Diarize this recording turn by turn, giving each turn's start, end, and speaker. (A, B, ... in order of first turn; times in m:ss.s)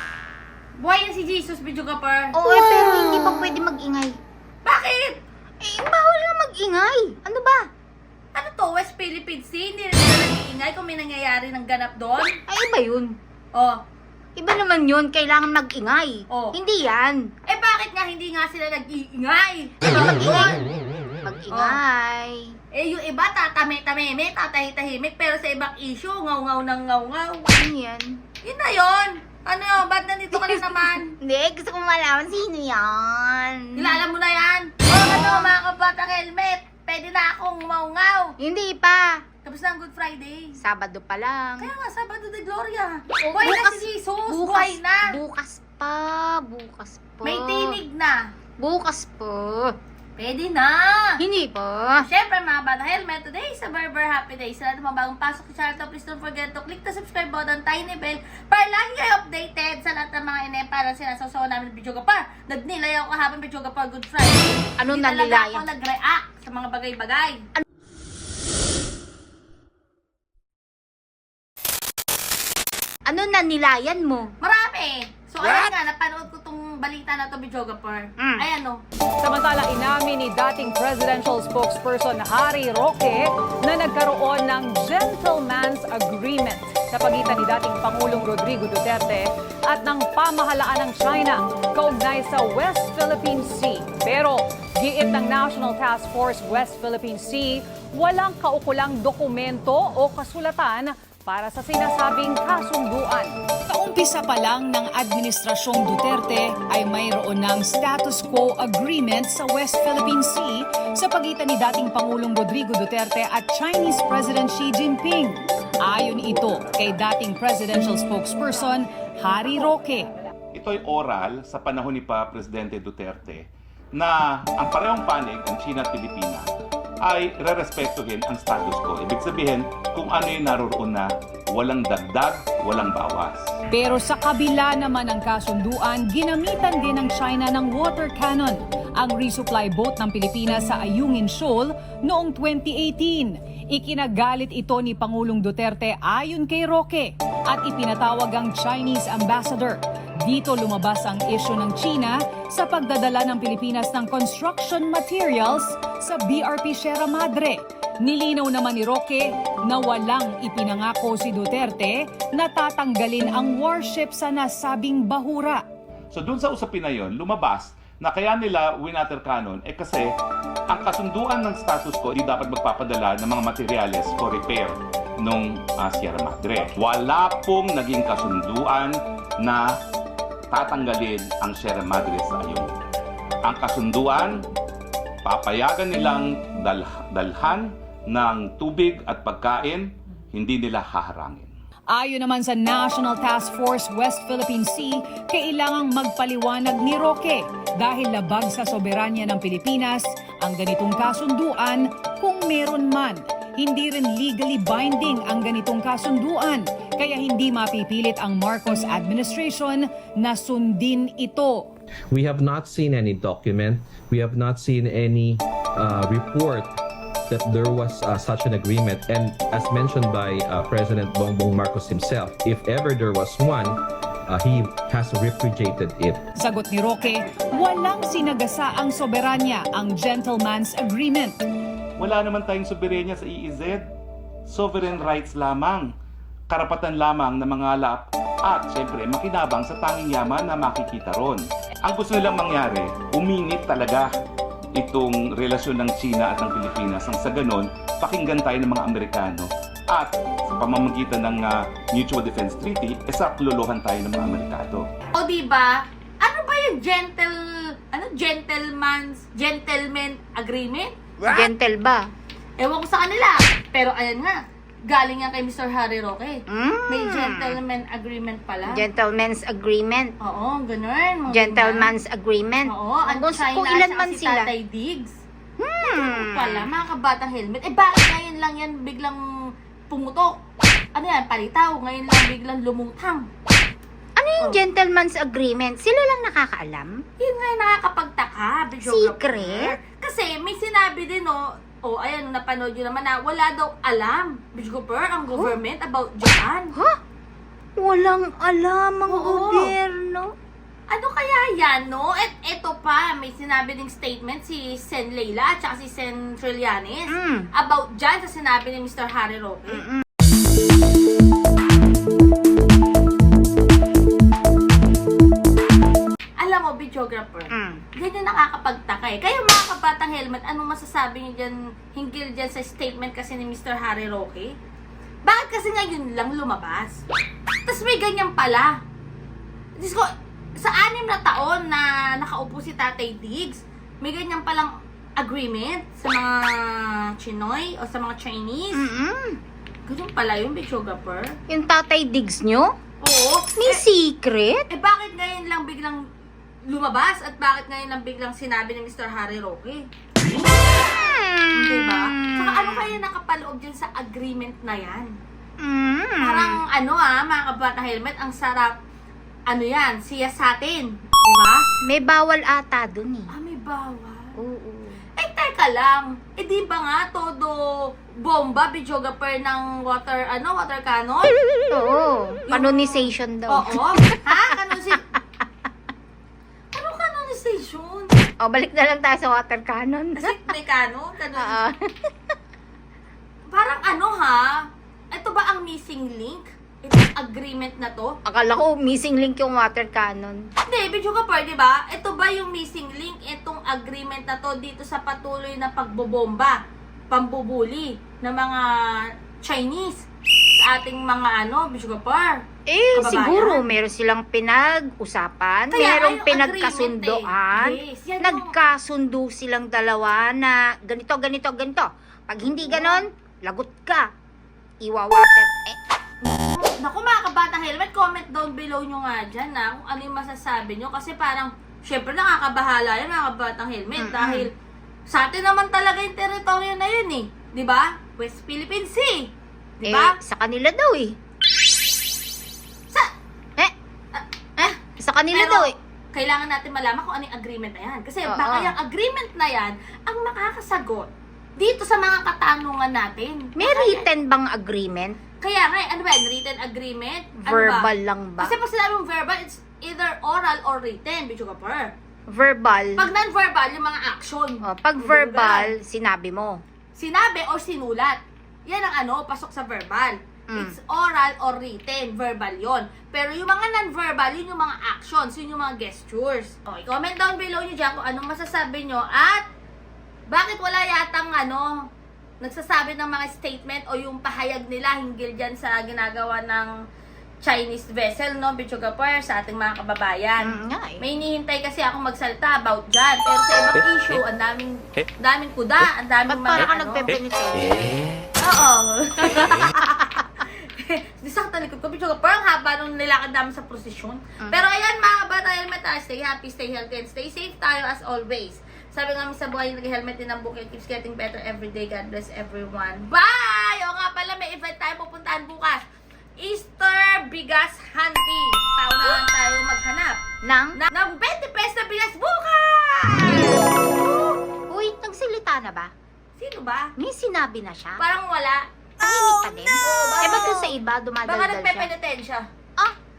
0:00.8-0:02.8 A
0:02.4-0:04.2 B
0:04.6-0:05.2 A
0:05.6-0:07.6 B
0:08.4-0:12.4 A
0:12.5-0:13.2 B
0:14.4-0:17.3 B
0:17.5-0:20.7 A
0:19.9-0:20.6 B
0:21.2-0:22.5 B
0:21.5-0:21.8 A
0:22.7-0:27.5 A
0:27.5-0:28.2 B
0:28.4-0:31.1 A
0:30.3-0:34.0 B
0:33.8-0:38.3 A
0:35.0-0:35.5 B
0:38.4-0:39.2 B
0:39.4-0:40.6 A
0:40.6-0:41.7 B
0:41.6-0:45.1 A
0:43.2-0:47.8 B
0:47.2-0:48.2 A
0:48.6-0:49.8 B
0:50.2-0:51.2 A
0:51.2-0:52.0 B
0:52.0-1:07.4 A
1:04.8-1:05.7 B
1:13.1-1:14.3 B
1:14.4-1:18.8 A
1:18.2-1:18.5 B
1:19.2-2:00.1 C
2:00.5-2:06.5 D
2:07.0-2:13.5 D
2:13.7-2:45.6 C
2:46.1-2:50.1 D
2:50.7-2:59.6 D
3:00.5-3:02.8 D
3:03.4-3:04.4 D
3:05.2-3:11.5 D
3:11.9-3:31.7 C
3:32.1-3:36.7 E
3:37.3-3:46.2 E
3:46.4-3:51.4 C
3:52.0-3:53.8 D
3:54.5-3:55.9 D
3:56.5-4:04.1 D
4:04.8-4:14.9 D
4:15.2-4:21.4 A
4:21.3-4:22.1 B
4:22.6-4:28.9 A
4:26.5-4:27.6 B
4:28.7-4:30.1 B
4:30.2-4:31.9 A
4:31.3-4:34.5 B
4:32.7-4:35.1 A
4:35.6-4:36.7 B
4:35.8-4:39.2 A
4:39.9-4:40.3 A
4:41.0-4:43.3 A
4:44.2-4:47.0 B
4:47.2-4:56.7 A
4:48.8-4:49.8 B
4:57.8-5:00.3 B
4:59.1-4:59.7 A
5:00.9-5:09.8 A
5:07.2-5:07.5 B
5:09.7-5:10.0 B
5:16.4-5:24.5 A
5:17.6-5:17.8 B
5:25.2-5:27.0 A
5:27.7-5:28.7 A
5:29.8-5:30.1 A
5:30.6-5:38.9 A
5:38.7-5:39.4 B
5:39.9-5:41.4 A
5:41.5-5:42.7 B
5:43.0-5:43.8 A
5:43.6-5:44.6 B
5:44.7-5:46.0 A
5:46.7-5:49.8 A
5:50.8-5:52.9 B
5:51.5-5:55.1 A
5:55.6-5:56.6 B
5:56.2-5:58.7 A
5:59.5-6:01.6 A
6:01.9-6:03.3 B
6:03.3-6:04.4 A
6:04.4-6:05.0 B
6:05.2-6:07.6 A
6:08.2-6:11.4 A
6:11.7-6:14.3 B
6:12.5-6:15.0 A
6:16.7-6:18.1 A
6:18.4-6:20.4 B
6:20.2-6:21.6 A
6:21.4-6:22.1 B
6:23.5-6:24.5 A
6:25.1-6:28.1 A
6:28.3-6:30.4 B
6:30.7-6:36.6 A
6:37.1-6:38.6 A
6:39.4-6:40.0 A
6:40.6-6:42.4 A
6:42.7-6:54.0 B
6:42.9-6:43.6 A
6:45.7-6:48.5 A
6:52.5-6:53.0 A
6:54.8-6:55.8 B
6:56.2-7:04.5 A
7:04.0-7:04.5 B
7:05.1-7:10.1 A
7:09.9-7:11.2 B
7:14.6-7:15.7 B
7:15.3-7:24.1 A
7:18.3-7:18.8 B
7:23.6-7:25.2 B
7:25.4-7:27.9 A
7:27.5-7:28.6 B
7:28.4-7:31.9 A
7:32.3-7:33.1 B
7:33.0-7:35.7 A
7:34.7-7:36.6 B
7:37.0-7:49.4 A
7:50.3-7:51.7 A
7:52.4-7:56.7 A
7:57.4-8:07.2 A
8:00.4-8:01.0 B
8:06.3-8:08.1 B
8:08.4-8:25.8 A
8:26.4-8:30.2 A
8:30.5-8:30.8 B
8:30.8-8:34.4 A
8:33.3-8:33.6 B
8:34.7-8:35.9 B
8:36.4-8:36.9 A
8:37.0-8:38.0 B
8:38.0-8:40.7 A
8:39.0-8:41.9 B
8:41.2-8:42.4 A